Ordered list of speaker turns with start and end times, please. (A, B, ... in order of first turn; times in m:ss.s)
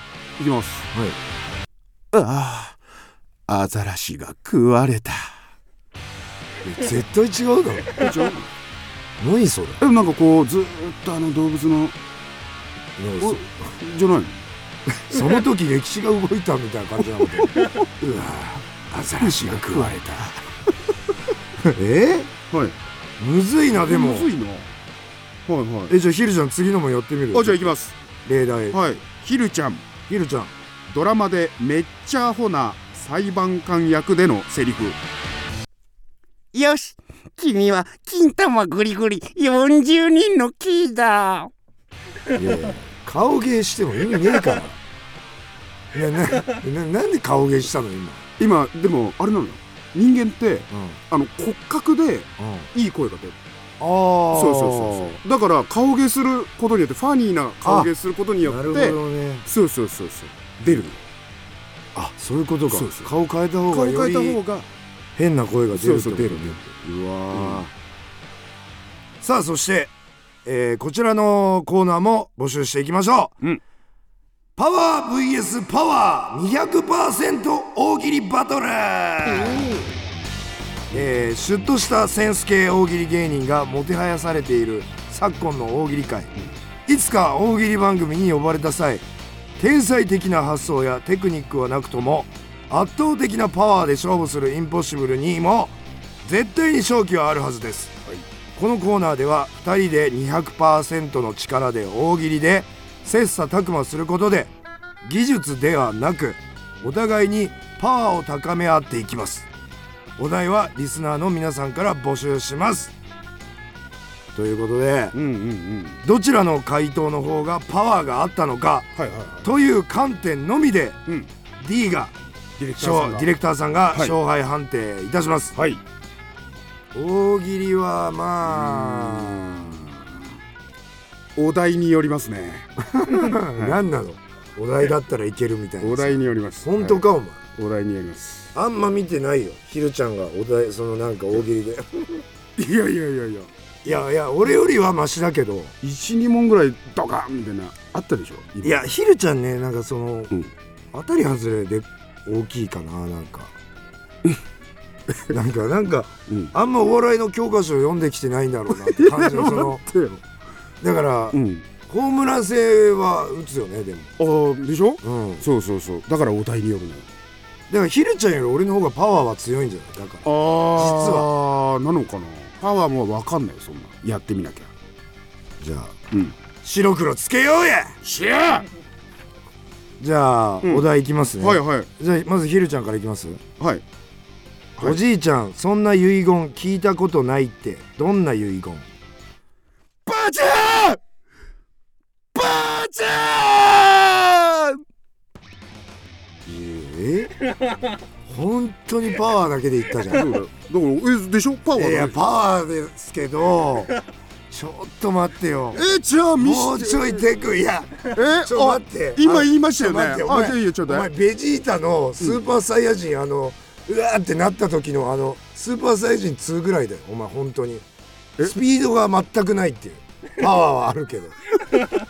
0:00.4-0:00.9 A
0:02.1-0:02.8 A
0:03.5-0:05.4 A
0:06.6-0:08.0 B
0:07.9-0:08.5 A
0:09.2-0:09.8 B
0:09.8-0:12.0 A
0:13.0-0:13.5 B
0:13.2-0:14.4 A
0:15.0-0:20.3 B
0:17.2-0:17.8 A
0:19.2-0:20.4 A
0:21.6-0:22.3 B
0:22.5-0:22.8 A
0:23.2-0:24.3 B
0:23.9-0:24.7 A
0:25.4-0:26.0 A
0:25.9-0:28.8 B
0:27.3-0:28.0 A
0:28.7-0:29.8 A
0:30.1-0:30.5 B
0:30.9-0:35.0 A
0:36.5-0:41.5 C
0:42.3-0:44.8 B
0:45.9-0:48.2 B
0:48.4-0:53.4 A
0:50.7-0:51.0 B
0:52.4-0:52.7 B
0:53.8-0:55.2 B
0:54.3-1:01.0 A
0:57.6-0:57.9 B
0:58.4-0:59.4 B
1:01.9-1:04.4 B
1:02.7-1:03.1 A
1:03.7-1:04.7 A
1:05.2-1:07.7 B
1:05.7-1:06.7 A
1:07.3-1:07.7 A
1:09.2-1:09.9 B
1:10.4-1:13.4 B
1:14.6-1:19.8 B
1:19.4-1:19.9 A
1:20.9-1:26.3 B
1:26.8-1:29.0 B
1:29.6-1:38.0 B
1:38.6-1:49.5 B
1:50.2-1:52.9 B
1:54.3-1:55.1 B
1:55.1-1:56.0 A
1:56.0-1:58.9 B
1:59.0-1:59.5 A
1:59.4-2:01.0 B
2:01.6-2:02.1 B
2:02.6-2:03.3 A
2:02.8-2:05.6 B
2:05.6-2:05.8 A
2:06.9-2:09.9 B
2:08.4-2:10.0 A
2:11.4-2:13.8 A
2:12.9-2:17.4 B
2:15.8-2:18.5 A
2:18.5-2:22.2 B
2:22.6-2:23.5 A
2:23.8-2:25.8 B
2:25.8-2:28.8 A
2:28.6-2:30.3 B
2:30.9-2:33.5 B
2:35.1-2:35.4 A
2:35.3-2:40.0 B
2:36.3-2:36.5 A
2:38.7-2:40.2 A
2:40.8-2:44.1 B
2:41.3-2:41.6 A
2:44.2-2:47.1 A
2:45.0-2:45.4 B
2:47.7-2:51.3 B
2:50.2-2:54.7 A
2:55.6-2:56.0 B
2:56.1-2:56.4 A
2:56.6-2:58.0 B
2:58.0-2:58.7 A
3:00.0-3:03.4 B
3:00.6-3:00.9 A
3:01.4-3:01.9 A
3:03.6-3:03.8 A
3:04.8-3:08.9 B
3:10.0-3:11.0 B
3:12.3-3:14.7 B
3:16.4-3:17.4 B
3:18.2-3:20.3 B
3:20.1-3:22.2 A
3:21.7-3:24.0 B
3:24.5-3:25.8 B
3:25.7-3:27.2 A
3:26.4-3:37.8 B
3:28.1-3:31.1 A
3:38.4-3:41.4 B